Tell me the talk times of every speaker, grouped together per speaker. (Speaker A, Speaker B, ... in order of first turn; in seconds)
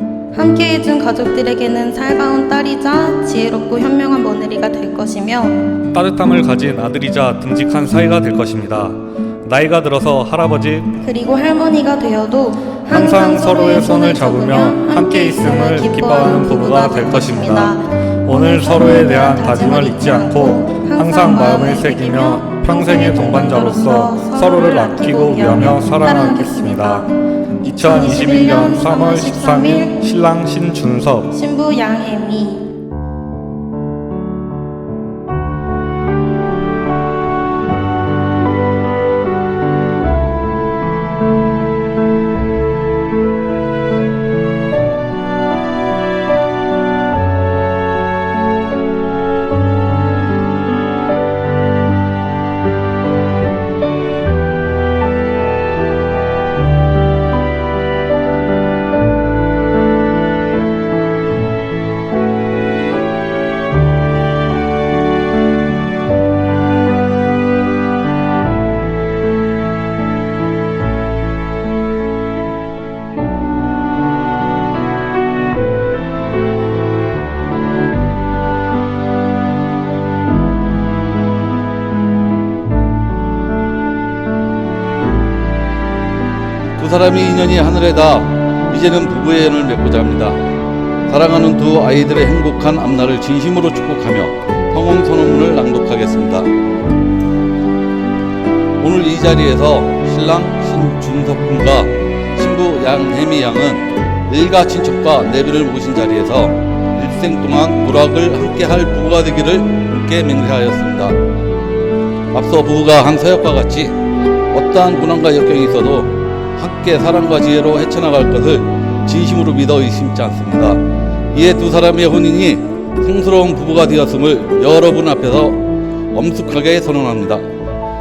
Speaker A: 0.3-5.7, 11.0-27.1, 27.7-30.0, 31.3-32.7
Speaker B: 5.9-10.9, 12.9-17.7, 18.3-27.1, 27.6-31.3
Speaker C: 86.8-90.4, 91.1-96.5, 98.8-111.2, 112.3-113.9, 114.5-120.8, 121.3-127.5